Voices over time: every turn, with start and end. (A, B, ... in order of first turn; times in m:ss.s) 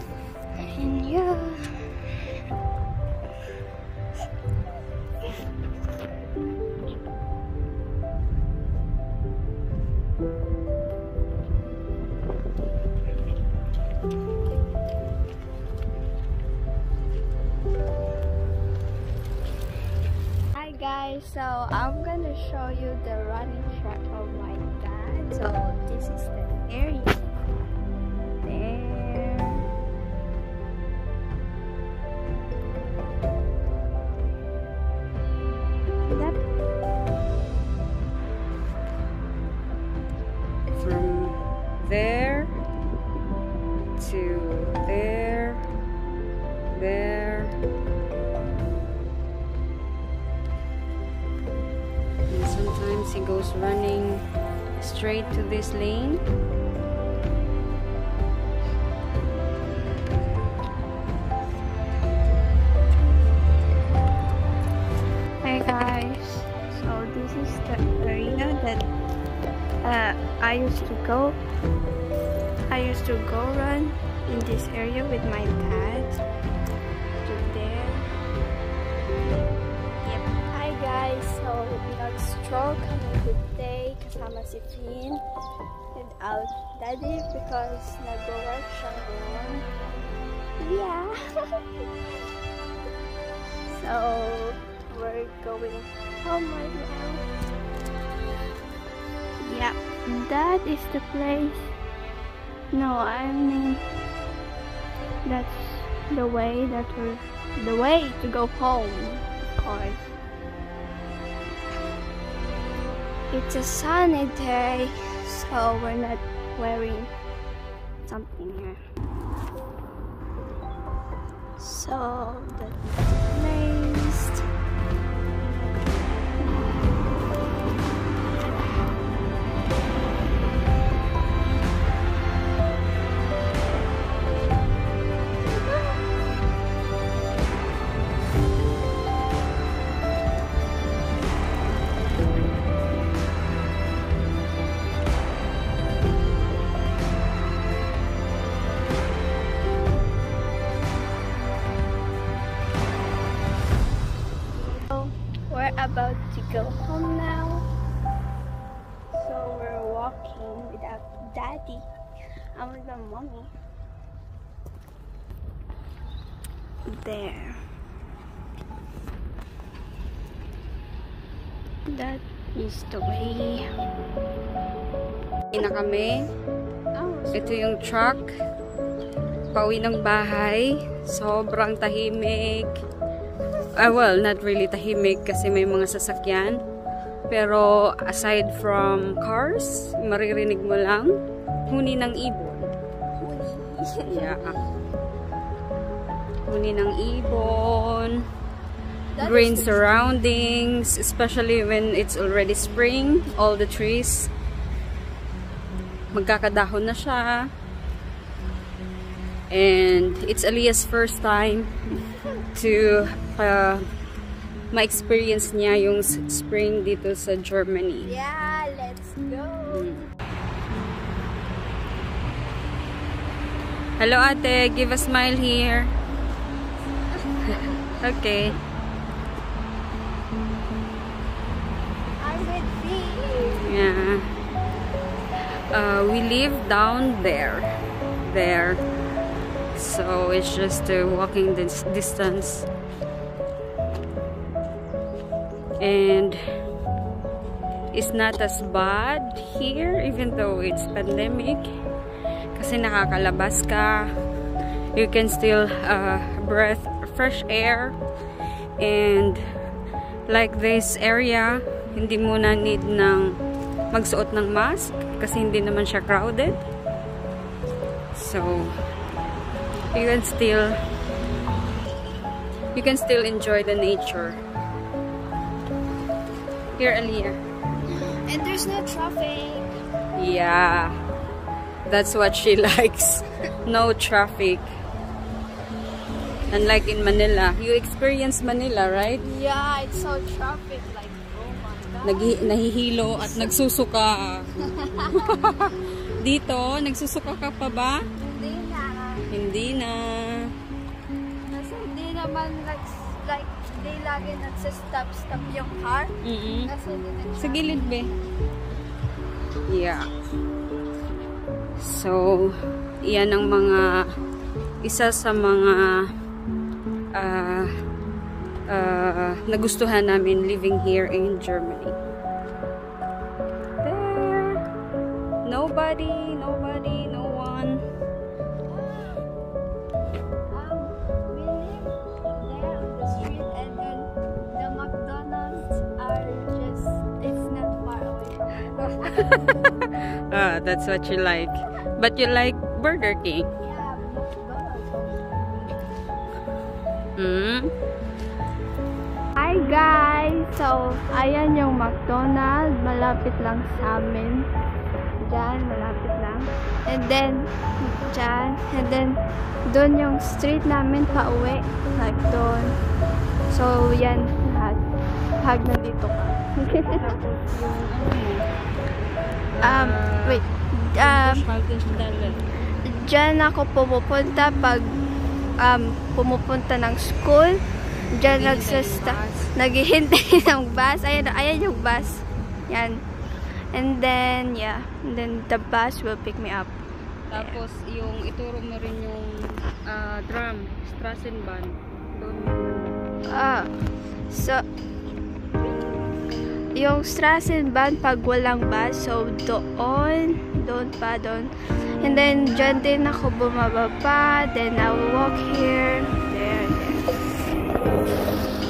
0:00.6-0:02.2 A
0:20.5-0:27.2 A
0:28.4-0:29.6 A
0:36.1-0:36.4 A
0:40.8-0:42.5 B
0:44.0-0:45.6 B
0:46.7-0:47.5 B
0:52.3-0:54.2 B
0:54.8-0:56.2 B
1:05.4-1:08.8 A
1:09.8-1:11.4 A
1:12.7-1:16.2 A
1:17.2-1:18.0 A
1:20.0-1:25.2 A
1:25.9-1:29.7 A
1:30.6-1:31.1 A
1:33.7-1:37.2 A
1:39.4-1:41.7 A
1:42.7-1:43.8 A
1:45.2-1:50.0 A
1:53.3-1:57.1 A
1:58.0-1:58.8 A
2:01.6-2:04.4 A
2:34.7-2:37.6 A
2:39.1-2:41.8 A
2:42.5-2:43.5 A
2:46.9-2:47.6 A
2:51.9-2:53.6 A
2:55.5-2:56.3 B
2:56.9-2:58.1 A
2:57.3-2:58.3 B
2:59.5-3:02.8 B
3:03.7-3:06.6 B
3:07.3-3:12.7 B
3:13.2-3:14.8 A
3:14.1-3:14.5 B
3:16.5-3:18.2 B
3:19.1-3:19.8 A
3:19.2-3:24.3 B
3:26.1-3:27.5 B
3:29.5-3:31.7 B
3:32.5-3:33.8 B
3:34.7-3:38.1 B
3:38.0-3:40.0 A
3:39.7-3:40.0 B
3:44.0-3:45.9 B
3:47.4-3:48.6 B
3:52.2-3:53.7 A
3:53.6-3:54.2 B
3:55.7-3:57.7 B
3:58.2-3:58.8 B
3:59.7-4:02.7 B
4:05.8-4:06.4 B
4:07.9-4:11.6 B
4:12.5-4:14.1 B
4:14.9-4:19.4 B
4:20.3-4:23.4 B
4:23.9-4:26.6 B
4:28.1-4:28.7 B
4:29.9-4:30.7 B
4:32.7-4:34.4 B
4:36.7-4:37.4 B
4:37.9-4:39.7 A
4:40.2-4:40.9 B
4:41.8-4:44.7 B
4:46.5-4:49.2 B
4:49.2-4:52.5 A
4:52.0-4:54.5 B
4:53.2-4:53.5 A
4:54.6-4:55.7 A
4:55.1-4:58.0 B
4:58.2-4:59.2 A
4:59.3-5:00.5 B
5:01.5-5:08.0 A
5:06.2-5:06.7 B
5:07.4-5:08.1 B
5:09.7-5:10.1 B
5:11.8-5:13.9 B
5:14.8-5:16.0 B
5:17.1-5:17.7 B
5:18.7-5:22.0 B
5:23.8-5:24.6 B
5:25.4-5:27.8 B
5:28.7-5:29.2 A
5:30.5-5:39.6 A
5:39.3-5:43.5 B
5:43.6-5:45.3 A
5:47.2-5:47.7 B
5:49.4-5:54.5 A
5:55.2-6:02.8 A
6:03.5-6:07.0 A
6:06.9-6:08.4 B
6:09.6-6:10.4 B
6:09.6-6:11.4 A
6:11.0-6:12.4 B
6:12.8-6:14.9 A
6:15.6-6:17.6 A
6:18.1-6:23.0 A
6:18.3-6:19.5 B
6:23.7-6:26.7 A
6:27.3-6:33.0 B
6:27.3-6:27.6 A
6:33.3-6:33.7 A
6:34.3-6:34.6 A
6:36.7-6:47.2 A